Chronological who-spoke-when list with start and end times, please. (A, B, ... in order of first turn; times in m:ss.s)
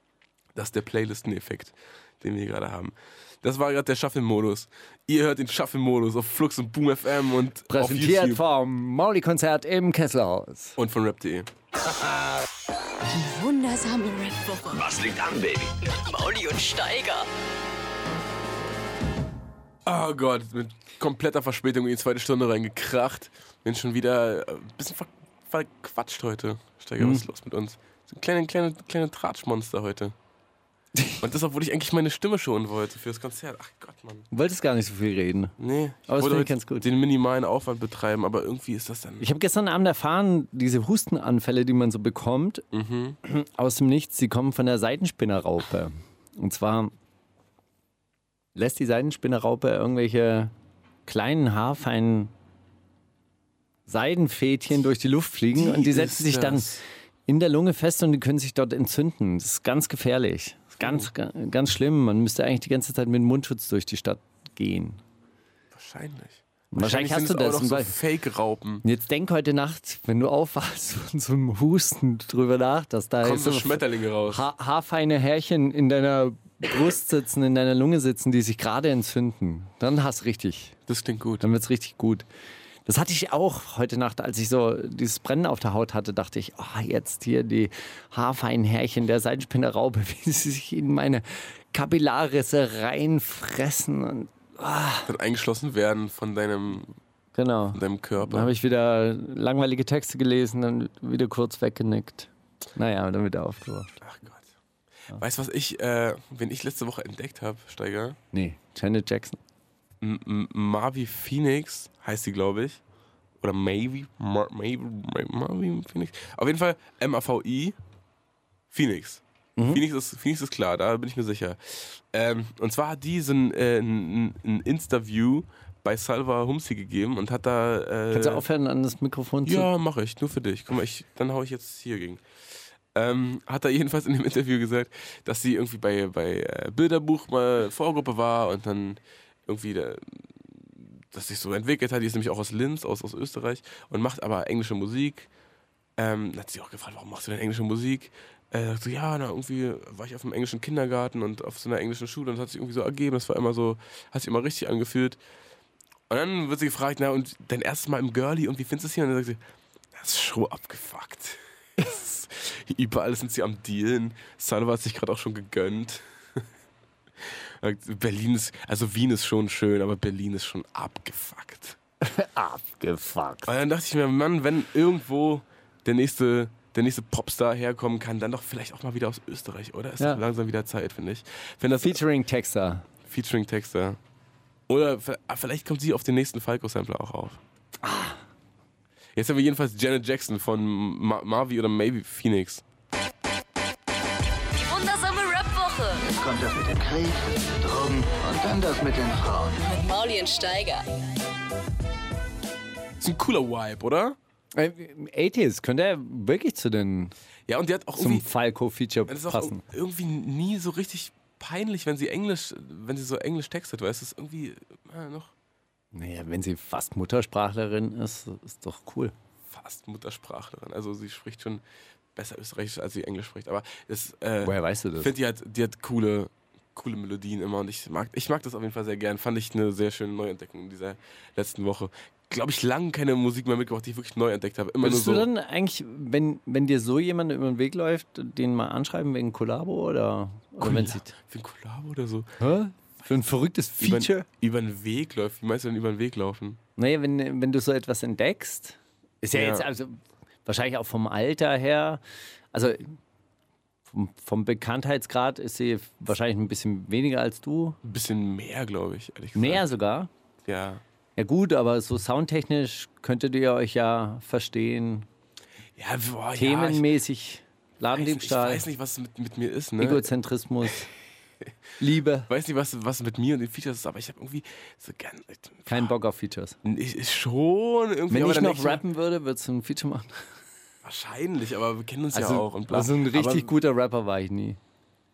0:00.6-0:08.4 A
0:07.7-0:10.8 B
0:10.8-0:11.5 A
0:13.1-0:14.9 C
0:14.8-0:15.7 D
0:15.8-0:17.3 C
0:19.8-0:30.2 A
0:27.0-0:27.2 B
0:31.0-0:31.2 B
0:31.2-0:34.3 A
0:34.3-0:35.6 B
0:35.6-0:39.3 A
0:36.1-0:36.9 B
0:39.2-0:42.6 B
0:42.7-0:43.2 A
0:43.2-0:46.9 B
0:48.6-0:50.5 B
0:51.1-0:52.3 B
0:53.9-1:05.0 B
0:55.5-0:56.8 A
1:00.8-1:01.1 A
1:05.7-1:08.8 A
1:06.7-1:08.0 B
1:08.8-1:20.8 B
1:13.2-1:14.4 A
1:20.9-1:21.4 A
1:21.4-1:22.2 B
1:22.9-1:35.1 B
1:35.1-1:36.9 A
1:37.4-1:44.0 B
1:37.7-1:38.5 A
1:44.0-1:44.5 A
1:45.1-1:48.2 A
1:48.3-1:49.4 B
1:50.0-1:52.8 A
1:53.4-1:57.8 A
1:58.7-2:08.4 A
1:59.6-1:59.8 B
2:08.1-2:09.7 B
2:09.4-2:12.2 A
2:12.9-2:25.3 A
2:26.0-2:35.2 A
2:36.1-2:39.4 A
2:39.9-2:46.4 A
2:47.2-2:51.8 A
2:52.0-2:53.5 B
2:53.5-3:02.0 A
3:01.8-3:02.9 B
3:03.0-3:04.0 A
3:04.7-3:07.4 A
3:07.8-3:08.2 B
3:09.2-3:12.6 A
3:14.6-3:16.1 C
3:16.1-3:19.6 D
3:19.6-3:20.8 C
3:23.0-3:24.2 A
3:24.6-3:27.1 B
3:27.5-3:28.3 A
3:28.0-3:29.6 B
3:29.1-3:35.3 A
3:35.9-3:39.1 B
3:39.5-3:41.6 A
3:42.2-3:55.3 A
3:44.4-3:45.1 B
3:54.8-4:01.1 B
4:00.6-4:02.3 A
4:02.4-4:04.3 B
4:03.8-4:06.6 A
4:06.8-4:12.0 B
4:09.3-4:09.7 A
4:12.5-4:13.0 B
4:13.9-4:17.8 B
4:17.8-4:19.7 A
4:19.4-4:20.1 B
4:20.4-4:20.8 A
4:21.2-4:25.1 B
4:25.8-4:26.9 A
4:26.4-4:28.7 B
4:27.9-4:30.1 A
4:29.8-4:30.9 B
4:31.8-4:32.3 B
4:32.3-4:35.9 A
4:35.7-4:36.6 B
4:36.6-4:38.8 A
4:38.1-4:40.3 B
4:40.8-4:43.5 A
4:42.1-4:44.6 B